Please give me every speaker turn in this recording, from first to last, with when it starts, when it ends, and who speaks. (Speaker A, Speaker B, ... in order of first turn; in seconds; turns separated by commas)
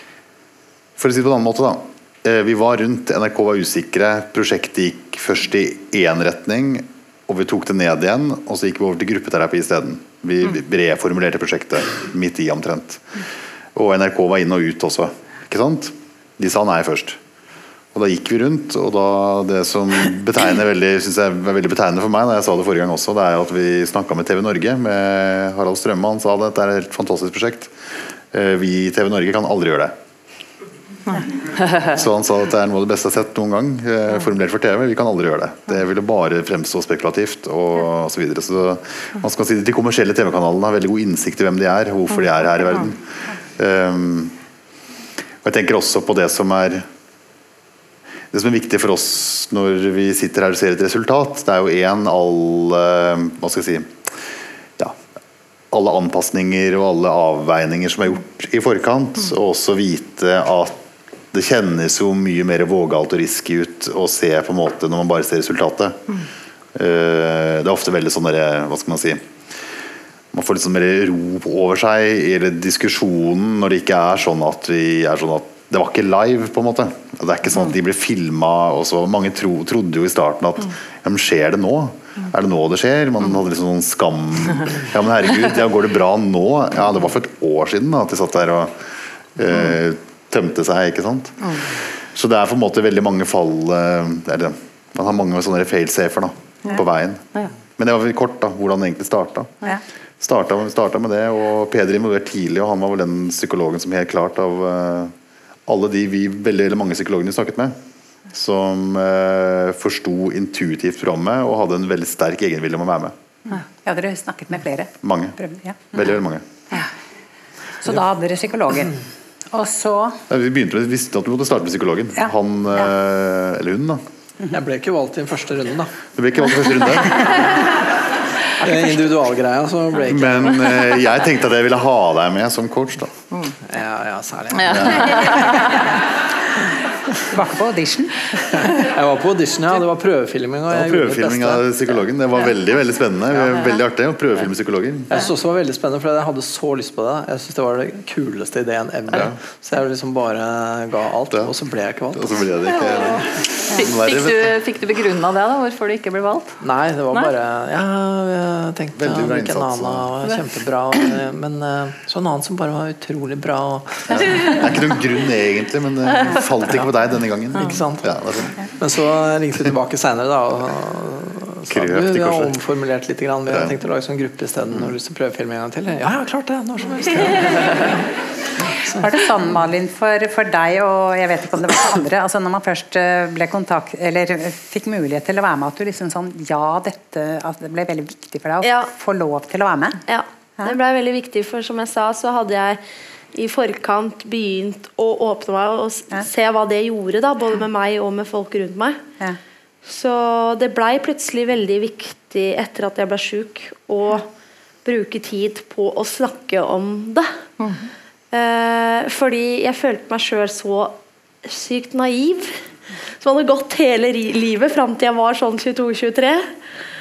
Speaker A: 1.0-13.2, Speaker A: 13.8-17.2, Speaker A: 17.9-27.8, Speaker A: 28.3-30.0, Speaker A: 31.8-43.0, Speaker A: 43.6-44.4, Speaker A: 45.4-46.9, Speaker A: 48.3-55.0, Speaker A: 55.7-60.8, Speaker A: 61.3-66.1, Speaker A: 66.8-69.3, Speaker A: 70.3-99.5, Speaker A: 100.2-105.1, Speaker A: 105.7-107.8, Speaker A: 108.3-113.1, Speaker B: 113.5-116.0, Speaker A: 115.0-115.4, Speaker A: 115.9-116.4, Speaker B: 117.8-118.9, Speaker B: 119.5-120.2, Speaker A: 120.3-124.0, Speaker C: 124.5-125.9, Speaker A: 126.2-127.6, Speaker C: 128.6-130.8, Speaker A: 130.1-133.2, Speaker C: 133.7-135.3, Speaker D: 134.6-135.4, Speaker A: 134.7-135.2, Speaker B: 137.3-138.3, Speaker C: 138.7-141.8, Speaker A: 140.7-145.1, Speaker C: 145.1-152.4, Speaker A: 149.1-149.4, Speaker A: 152.1-154.6, Speaker D: 153.7-156.6, Speaker C: 156.6-164.6, Speaker A: 159.0-160.1, Speaker A: 164.1-168.6, Speaker C: 167.6-168.1, Speaker C: 168.8-178.1, Speaker A: 171.7-172.6, Speaker B: 178.8-190.0, Speaker E: 188.6-188.9, Speaker E: 190.1-192.8, Speaker E: 193.3-199.0, Speaker E: 199.9-204.3, Speaker E: 204.8-207.3, Speaker D: 207.6-207.8, Speaker E: 208.3-212.6, Speaker E: 213.2-216.5